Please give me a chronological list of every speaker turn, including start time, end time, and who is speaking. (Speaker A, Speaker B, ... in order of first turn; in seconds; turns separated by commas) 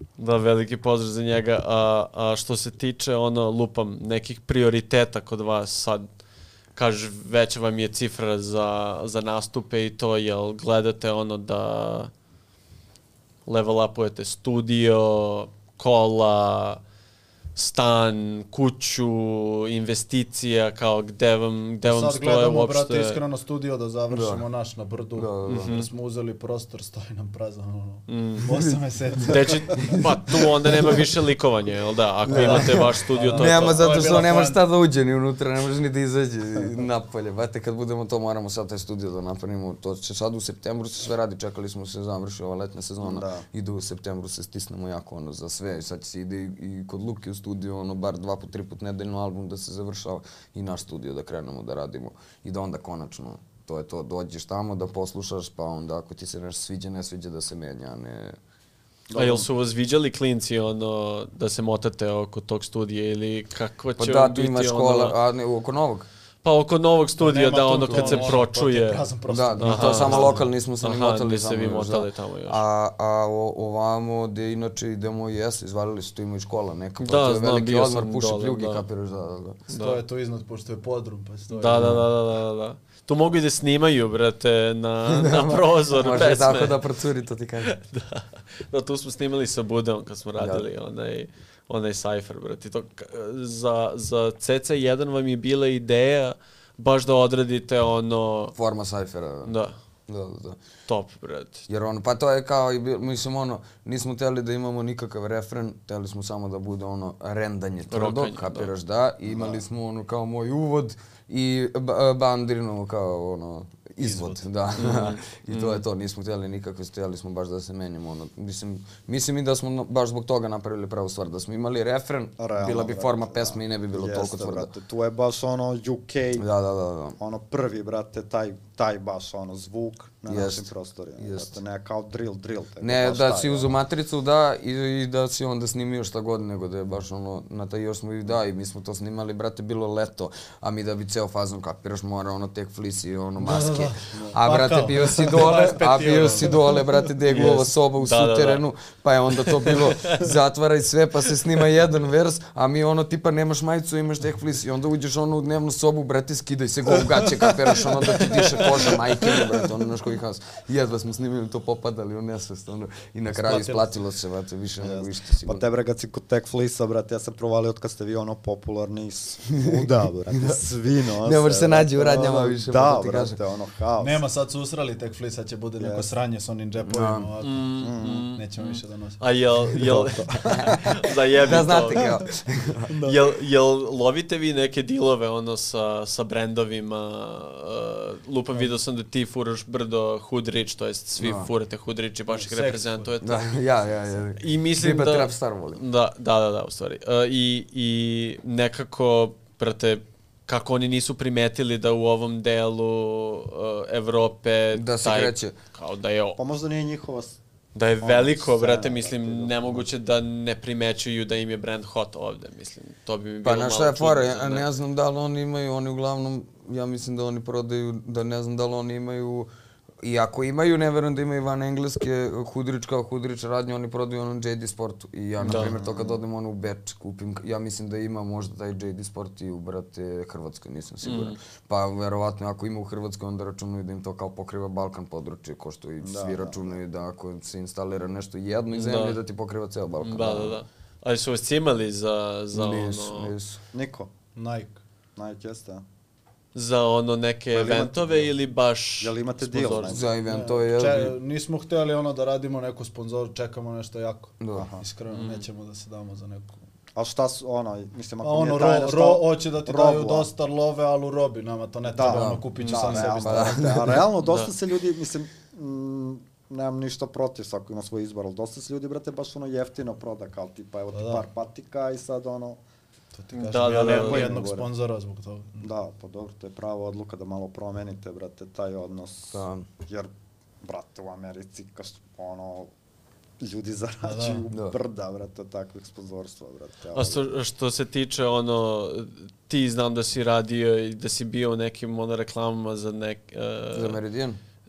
Speaker A: 0.2-6.0, Speaker A: 6.8-12.1, Speaker A: 13.4-16.8, Speaker A: 17.6-23.2, Speaker B: 21.9-29.7, Speaker C: 24.1-24.4, Speaker C: 25.2-25.7, Speaker A: 25.4-25.9, Speaker A: 28.1-28.5, Speaker C: 28.5-31.1, Speaker A: 29.2-33.8, Speaker C: 32.2-58.4, Speaker B: 32.3-34.6, Speaker D: 43.0-43.4, Speaker D: 59.1-59.5, Speaker A: 59.1-65.1, Speaker C: 64.0-66.1, Speaker A: 66.4-69.0, Speaker B: 67.2-70.5, Speaker C: 67.8-68.3, Speaker C: 69.3-79.6, Speaker A: 69.6-72.6, Speaker A: 77.0-78.8, Speaker A: 79.7-80.0, Speaker B: 79.7-82.0, Speaker A: 81.5-86.8, Speaker C: 81.7-82.1, Speaker C: 85.0-87.7, Speaker A: 87.6-98.5, Speaker C: 90.4-90.6, Speaker C: 98.5-99.6, Speaker A: 99.4-99.7, Speaker C: 100.1-100.6, Speaker A: 100.9-101.7, Speaker C: 101.7-124.7, Speaker A: 107.9-108.7, Speaker D: 109.3-109.6, Speaker B: 114.0-114.4, Speaker A: 114.8-115.8, Speaker D: 122.4-126.5, Speaker C: 126.4-127.2, Speaker D: 127.2-133.8, Speaker C: 130.3-131.5, Speaker C: 132.8-165.6, Speaker B: 143.4-147.6, Speaker D: 144.1-144.4, Speaker A: 147.3-148.6, Speaker A: 149.3-150.3, Speaker D: 157.4-158.9, Speaker B: 163.3-163.9, Speaker D: 164.8-174.2, Speaker C: 169.5-169.9, Speaker C: 171.2-173.4, Speaker B: 174.0-179.2, Speaker D: 175.8-176.1, Speaker C: 176.8-177.3, Speaker A: 177.4-182.2, Speaker D: 177.8-178.3, Speaker D: 179.9-180.9, Speaker C: 180.4-180.8, Speaker C: 181.4-182.9, Speaker D: 181.9-182.2, Speaker D: 182.9-183.2, Speaker A: 183.0-193.4, Speaker C: 191.2-191.5, Speaker B: 192.3-193.1, Speaker C: 193.2-195.8, Speaker A: 194.4-206.4, Speaker C: 204.7-205.6, Speaker D: 206.4-207.4, Speaker A: 207.7-214.7, Speaker D: 208.0-209.9, Speaker C: 213.4-219.5, Speaker C: 220.0-240.6, Speaker D: 225.4-226.2, Speaker A: 225.4-225.7, Speaker A: 231.0-231.3, Speaker D: 236.0-236.8, Speaker A: 238.7-239.2, Speaker A: 240.0-243.3, Speaker C: 242.5-243.6, Speaker D: 243.7-244.1, Speaker B: 244.3-244.8, Speaker D: 245.2-245.8, Speaker A: 246.5-250.0, Speaker D: 247.5-248.3, Speaker D: 249.0-250.1, Speaker C: 249.8-251.1, Speaker B: 250.3-256.6, Speaker C: 254.4-254.7, Speaker D: 254.5-254.8, Speaker A: 255.1-255.4, Speaker D: 256.9-260.3, Speaker B: 258.2-263.6, Speaker D: 261.9-272.6, Speaker C: 262.0-262.4, Speaker A: 262.6-263.0, Speaker C: 263.2-264.1, Speaker A: 264.2-264.5, Speaker B: 270.9-271.2, Speaker B: 273.1-275.7, Speaker A: 273.3-274.4, Speaker D: 273.7-274.7, Speaker D: 275.6-280.1, Speaker C: 279.3-279.6, Speaker D: 280.6-282.7, Speaker D: 283.4-287.2, Speaker B: 284.0-284.4, Speaker A: 286.9-294.0, Speaker C: 293.7-294.4